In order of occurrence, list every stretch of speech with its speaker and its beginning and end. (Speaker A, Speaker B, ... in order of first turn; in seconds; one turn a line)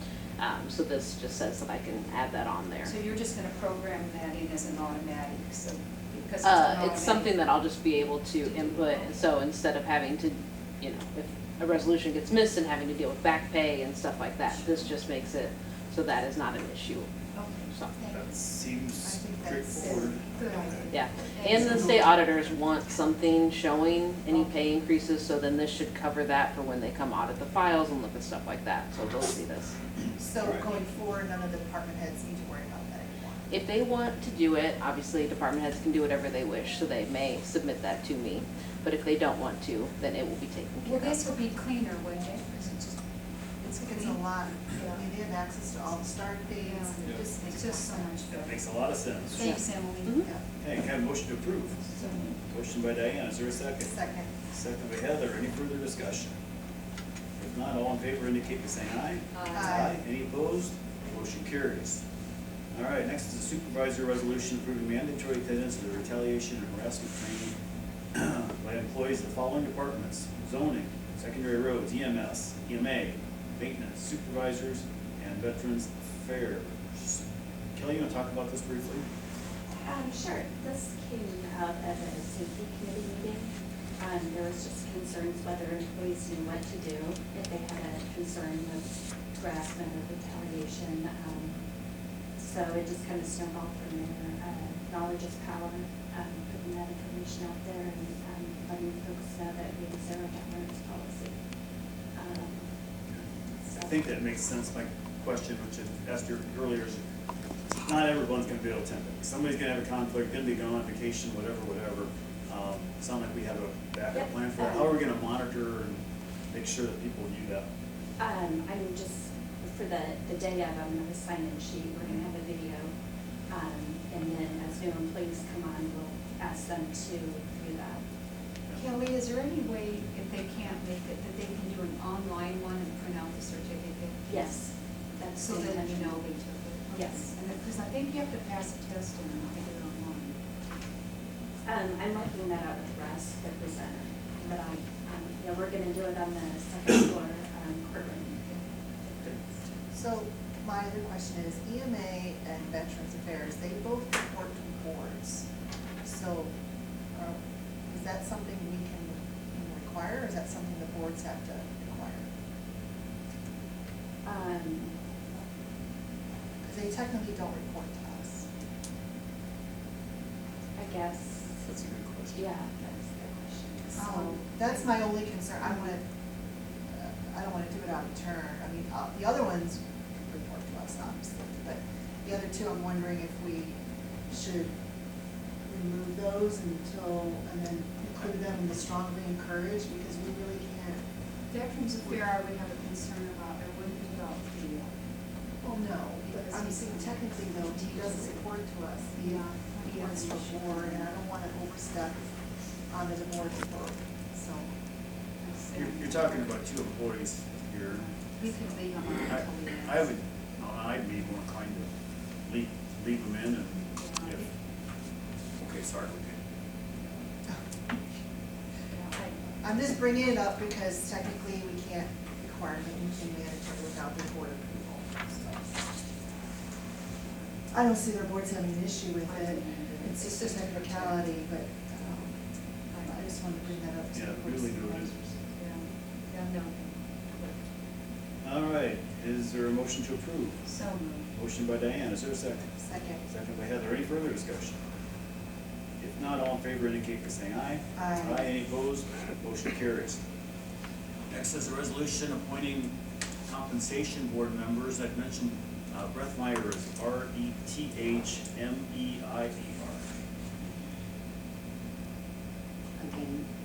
Speaker A: 0.4-2.9
Speaker B: 2.8-7.4
Speaker A: 6.4-17.1
Speaker B: 8.4-9.3
Speaker B: 17.3-18.4
Speaker C: 18.1-20.9
Speaker D: 19.0-20.9
Speaker B: 20.3-22.1
Speaker A: 20.9-29.7
Speaker B: 24.3-24.6
Speaker D: 30.2-33.4
Speaker A: 33.5-41.3
Speaker B: 40.8-42.8
Speaker D: 43.6-48.1
Speaker B: 43.9-44.2
Speaker B: 44.7-45.0
Speaker B: 46.6-48.6
Speaker C: 48.3-49.6
Speaker B: 49.3-50.3
Speaker A: 49.5-50.3
Speaker C: 50.6-56.3
Speaker B: 51.9-52.3
Speaker D: 53.9-54.3
Speaker C: 57.4-62.0
Speaker B: 59.3-59.8
Speaker D: 59.5-59.9
Speaker C: 62.7-67.5
Speaker C: 68.1-79.0
Speaker E: 79.7-91.7
Speaker E: 92.3-101.4
Speaker E: 102.1-102.7
Speaker E: 103.6-104.0
Speaker C: 103.8-107.0
Speaker C: 107.8-117.7
Speaker E: 114.1-115.0
Speaker E: 118.2-122.9
Speaker E: 123.5-128.0
Speaker B: 128.7-134.5
Speaker E: 134.2-136.3
Speaker B: 135.4-140.4
Speaker E: 136.9-137.3
Speaker E: 141.6-149.6
Speaker D: 149.9-155.4
Speaker D: 156.0-156.5
Speaker D: 157.1-162.3
Speaker E: 164.2-165.0
Speaker D: 166.6-168.4
Speaker E: 170.8-171.6
Speaker C: 171.6-172.4
Speaker E: 172.3-174.2
Speaker D: 173.9-176.0
Speaker B: 174.0-174.8
Speaker D: 176.9-183.8
Speaker D: 184.3-184.7
Speaker D: 185.6-191.0
Speaker B: 191.5-194.9
Speaker D: 195.6-202.2
Speaker B: 196.2-198.4
Speaker B: 199.2-201.2
Speaker D: 202.9-204.7
Speaker B: 205.4-206.2
Speaker C: 205.7-208.2
Speaker B: 208.1-210.0
Speaker C: 209.1-211.9
Speaker C: 212.4-214.5
Speaker B: 213.9-214.3
Speaker C: 215.6-216.4
Speaker B: 218.9-219.4
Speaker D: 219.6-225.8
Speaker D: 227.7-232.3
Speaker B: 229.4-230.4
Speaker B: 232.9-233.3
Speaker D: 232.9-235.1
Speaker C: 234.1-235.3
Speaker B: 235.6-237.6
Speaker C: 238.4-240.8
Speaker B: 240.6-241.3
Speaker C: 241.3-242.7
Speaker D: 242.8-243.2
Speaker C: 243.2-244.8
Speaker C: 246.0-250.2
Speaker D: 247.9-248.5
Speaker C: 251.3-252.9
Speaker C: 253.4-260.0